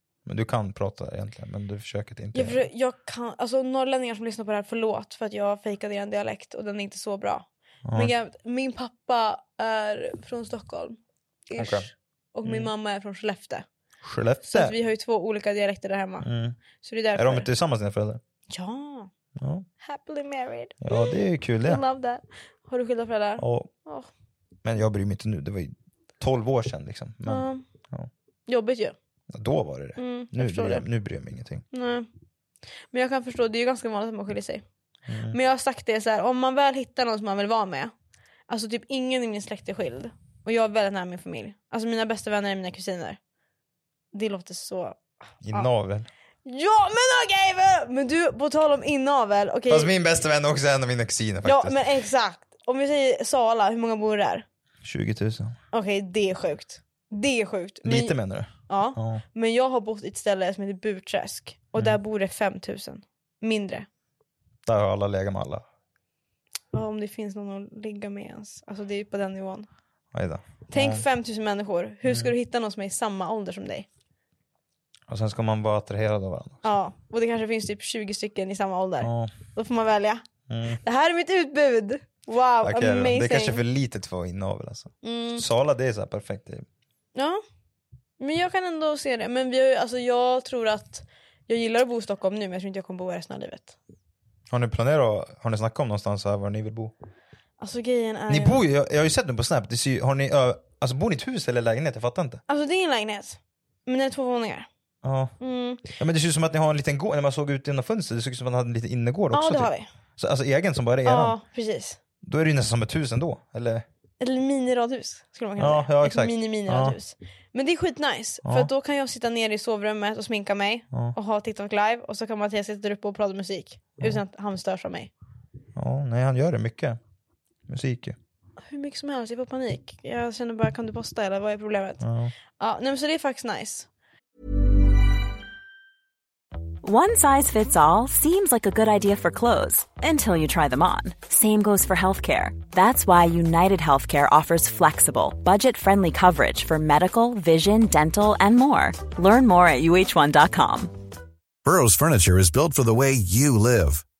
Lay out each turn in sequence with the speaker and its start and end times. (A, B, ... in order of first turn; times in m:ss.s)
0:00.3-0:02.7 A
0:02.3-0:13.6 B
0:07.8-0:08.1 A
0:11.6-0:11.9 A
0:12.4-0:12.7 A
0:14.0-0:14.8 A
0:14.4-0:16.3 B
0:16.2-0:16.6 A
0:16.8-0:17.5 B
0:17.1-0:18.2 A
0:18.5-0:19.1 B
0:19.4-0:19.7 A
0:19.8-0:24.1 B
0:20.8-0:21.8 A
0:23.4-0:23.7 A
0:24.6-0:28.1 A
0:27.3-0:27.6 B
0:28.5-0:29.0 B
0:29.3-0:31.6 A
0:30.0-0:30.9 B
0:31.7-0:32.1 B
0:32.9-0:34.6 B
0:35.1-0:35.4 A
0:35.3-0:37.9 B
0:38.5-0:43.2 B
0:44.1-0:45.0 B
0:45.4-0:46.1 A
0:46.4-0:49.9 B
0:49.7-0:51.8 A
0:51.4-0:54.4 B
0:54.8-0:55.6 A
0:55.7-0:58.2 B
0:57.8-0:59.2 A
0:58.7-1:03.9 B
1:04.6-1:05.6 A
1:06.7-1:09.7 B
1:10.1-1:11.0 A
1:10.7-1:13.9 B
1:12.1-1:12.3 A
1:15.1-1:16.7 A
1:16.6-1:20.2 B
1:19.0-1:19.3 A
1:20.5-1:20.8 A
1:20.8-1:23.6 B
1:22.6-1:26.7 A
1:25.0-1:25.4 B
1:27.2-1:27.4 B
1:28.2-1:33.8 B
1:34.5-1:36.9 A
1:37.6-1:38.6 B
1:38.3-1:42.4 A
1:42.5-1:44.7 B
1:45.0-1:45.4 A
1:45.4-1:45.9 B
1:46.0-1:51.4 A
1:49.3-1:49.9 B
1:51.0-1:52.0 B
1:52.2-1:53.8 A
1:54.2-2:05.1 B
1:55.6-1:57.0 A
1:58.4-1:58.7 A
2:05.8-2:07.0 A
2:07.7-2:08.2 A
2:08.6-2:12.0 B
2:12.0-2:12.3 A
2:12.6-2:13.9 B
2:16.8-2:31.0 C
2:31.6-2:34.0 D